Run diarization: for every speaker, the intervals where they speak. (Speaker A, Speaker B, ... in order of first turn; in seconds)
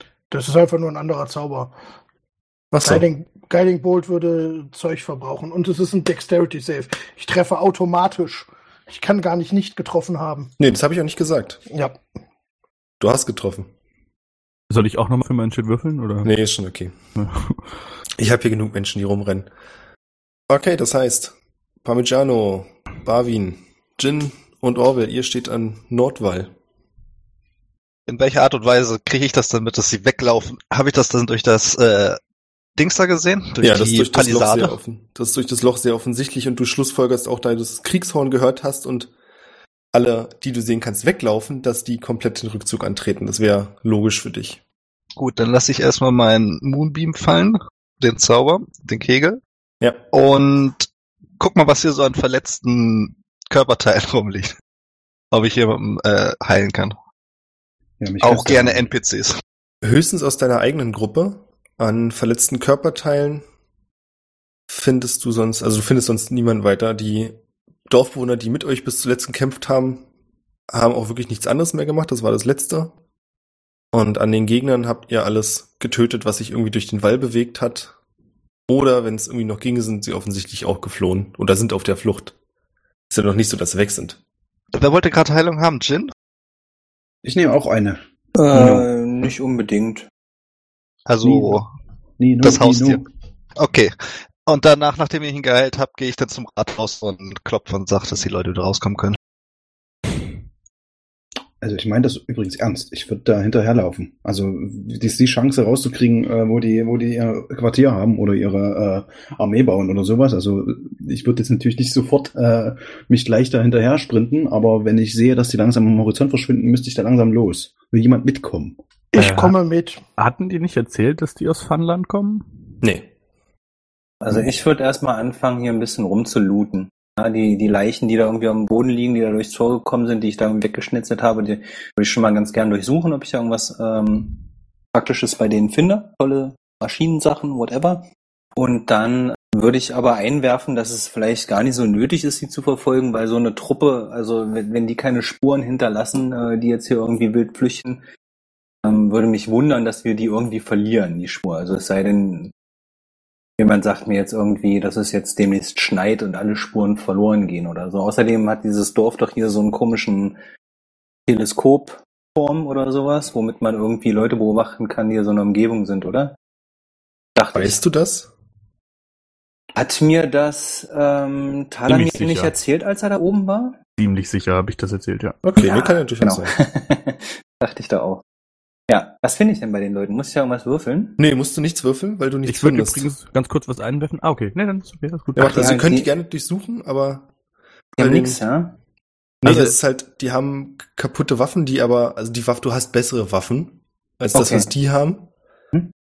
Speaker A: 0.3-1.7, 2.8-10.5, 119.1-120.0
Speaker B: 2.7-3.1, 10.6-11.6, 13.0-13.7, 16.2-16.9, 18.2-19.5, 20.5-26.5, 33.6-39.1, 39.9-44.6, 59.8-63.4, 64.7-67.4, 67.9-70.0, 70.7-72.9, 73.9-77.9, 78.7-82.3, 83.1-84.2, 122.8-123.1, 167.5-168.3, 175.4-176.6, 181.2-183.1, 185.3-187.3, 188.0-188.4, 189.4-195.3
Speaker C: 14.7-16.3, 17.2-17.6, 119.1-119.5, 120.2-122.4, 171.9-172.5, 174.0-175.4, 182.4-185.7
Speaker D: 28.1-32.2, 32.8-34.7, 45.2-49.4, 50.1-54.5, 55.3-57.0, 58.2-59.4, 84.7-86.1, 91.1-91.7, 92.4-93.0, 93.6-99.2
Speaker E: 58.0-58.9, 87.2-88.0, 88.5-88.9, 91.2-91.6, 92.2-93.1, 101.6-118.8
Speaker F: 88.3-90.1, 124.2-134.3, 134.9-148.0, 148.8-152.5, 153.6-160.4, 161.3-166.3, 167.3-167.8, 169.7-173.8, 175.6-178.2, 178.9-181.2, 185.5-186.1, 188.0-188.8, 194.3-194.7